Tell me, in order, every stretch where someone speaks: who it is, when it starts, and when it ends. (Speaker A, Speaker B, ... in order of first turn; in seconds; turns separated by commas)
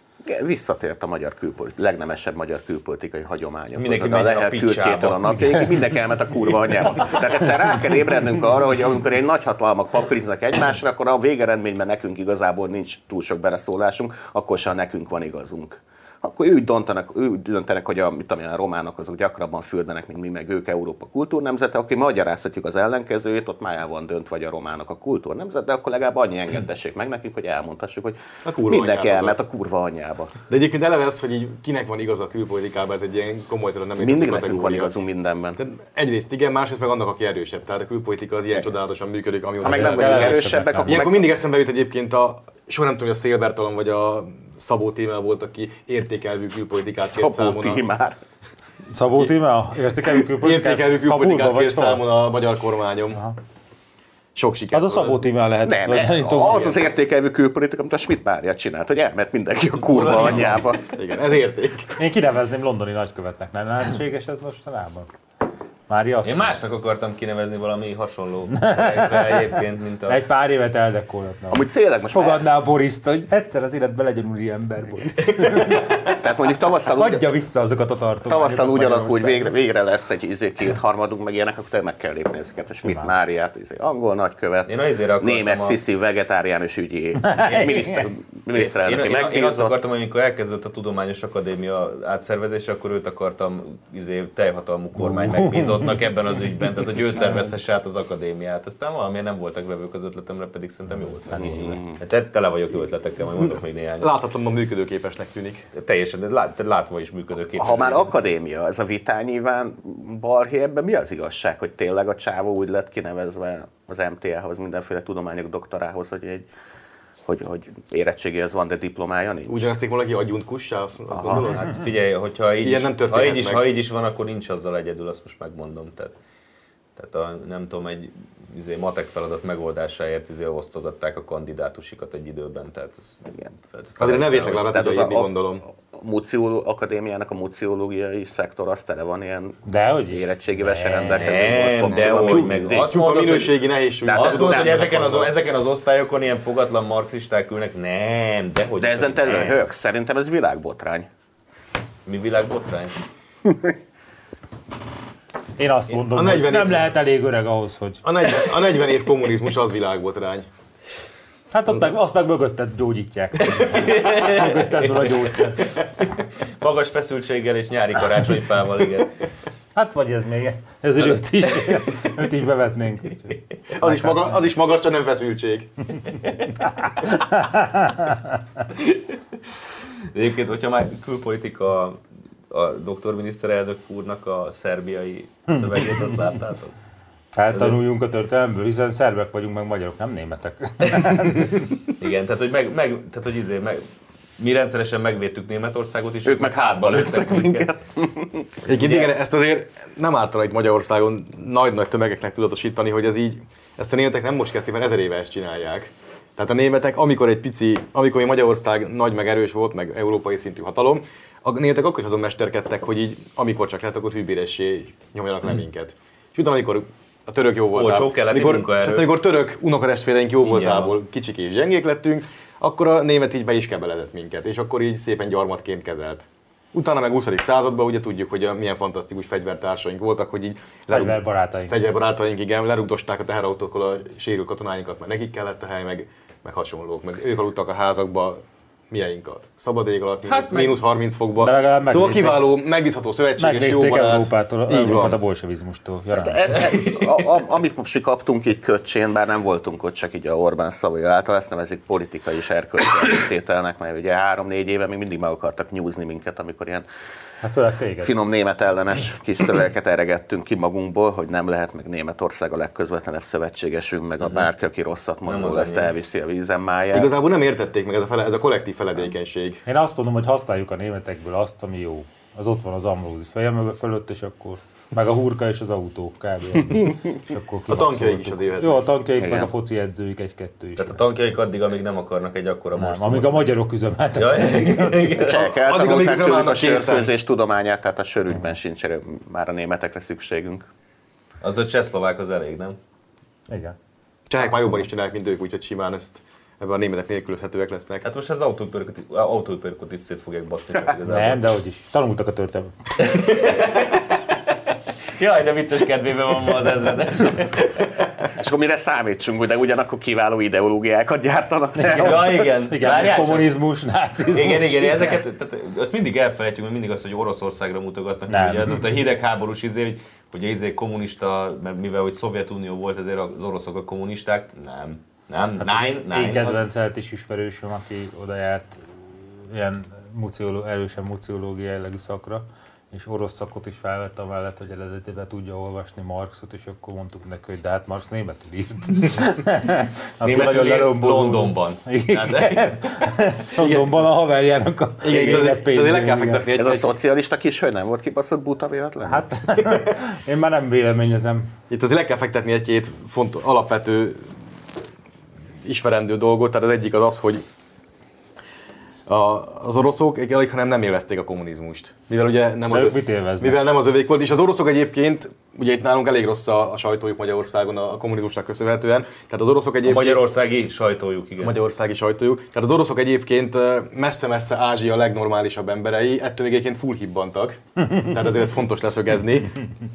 Speaker A: 0.2-30.3, Speaker B: 3.8-5.5, Speaker C: 28.4-29.4, Speaker C: 30.5-35.0, Speaker A: 34.0-35.6, Speaker C: 35.6-47.8, Speaker D: 39.6-41.1, Speaker A: 39.6-41.3, Speaker A: 47.0-48.2, Speaker D: 48.9-52.0, Speaker C: 50.4-53.2, Speaker C: 54.4-55.2, Speaker D: 54.7-56.9, Speaker A: 55.6-60.9, Speaker B: 59.9-60.7, Speaker C: 60.1-62.0, Speaker D: 62.0-65.1, Speaker D: 65.9-66.7, Speaker B: 66.2-70.2, Speaker D: 68.5-76.2, Speaker A: 71.5-72.5, Speaker A: 76.0-77.2, Speaker D: 77.0-79.5, Speaker A: 78.3-89.8, Speaker D: 82.8-83.1, Speaker B: 84.7-85.8, Speaker D: 87.2-88.1, Speaker B: 88.5-104.1, Speaker D: 95.0-96.0, Speaker D: 97.2-97.5, Speaker D: 101.3-101.6, Speaker A: 101.4-102.0, Speaker C: 104.0-105.7, Speaker B: 105.7-108.1, Speaker A: 107.6-116.5, Speaker A: 117.3-119.7, Speaker C: 119.5-121.8, Speaker A: 121.2-121.5, Speaker B: 121.4-126.2, Speaker C: 122.6-123.7, Speaker B: 127.0-134.7, Speaker C: 134.0-135.6, Speaker A: 134.7-142.9, Speaker D: 139.7-141.3, Speaker B: 141.1-143.6, Speaker C: 141.9-145.3, Speaker A: 144.1-145.0, Speaker B: 144.1-149.6, Speaker A: 148.8-151.1, Speaker B: 152.1-152.9, Speaker D: 155.6-158.1, Speaker C: 156.0-156.9, Speaker C: 158.1-160.5, Speaker D: 161.5-165.7, Speaker B: 163.5-165.7, Speaker B: 166.6-169.1, Speaker D: 169.8-174.4, Speaker B: 171.6-171.9, Speaker C: 173.8-175.7, Speaker B: 176.3-176.5, Speaker D: 176.6-178.4, Speaker B: 178.7-186.7, Speaker D: 185.5-186.1, Speaker D: 187.3-191.7, Speaker B: 187.5-187.8, Speaker B: 192.0-193.8, Speaker B: 194.4-197.7, Speaker A: 196.2-198.5, Speaker B: 198.7-199.1, Speaker C: 198.7-245.2, Speaker B: 217.7-219.1, Speaker B: 220.4-220.9, Speaker D: 230.9-231.8, Speaker B: 240.3-240.8, Speaker D: 241.4-242.5, Speaker D: 243.4-246.7, Speaker A: 246.2-256.9, Speaker D: 257.4-258.1, Speaker A: 258.0-267.1, Speaker B: 265.3-265.9, Speaker C: 266.9-269.6, Speaker D: 269.7-281.0, Speaker C: 277.7-278.9, Speaker A: 279.2-279.5, Speaker B: 280.8-283.5, Speaker D: 282.8-285.3, Speaker B: 284.2-285.4, Speaker A: 285.2-290.7, Speaker C: 285.4-287.1, Speaker B: 291.4-292.8, Speaker D: 293.5-293.8, Speaker C: 294.3-298.1, Speaker B: 298.0-301.5, Speaker D: 301.1-302.7, Speaker B: 303.0-304.2, Speaker B: 305.2-308.0, Speaker A: 308.4-312.5, Speaker D: 311.8-315.2, Speaker B: 311.9-313.5, Speaker B: 314.3-326.6, Speaker D: 318.3-318.9, Speaker D: 325.6-346.4, Speaker B: 340.2-343.2, Speaker C: 343.6-343.9, Speaker C: 345.0-346.9, Speaker A: 346.6-349.7, Speaker D: 349.0-351.5, Speaker C: 351.7-354.3, Speaker C: 355.6-357.4, Speaker C: 359.1-370.2, Speaker D: 362.7-363.6, Speaker B: 369.8-371.6, Speaker C: 371.4-379.6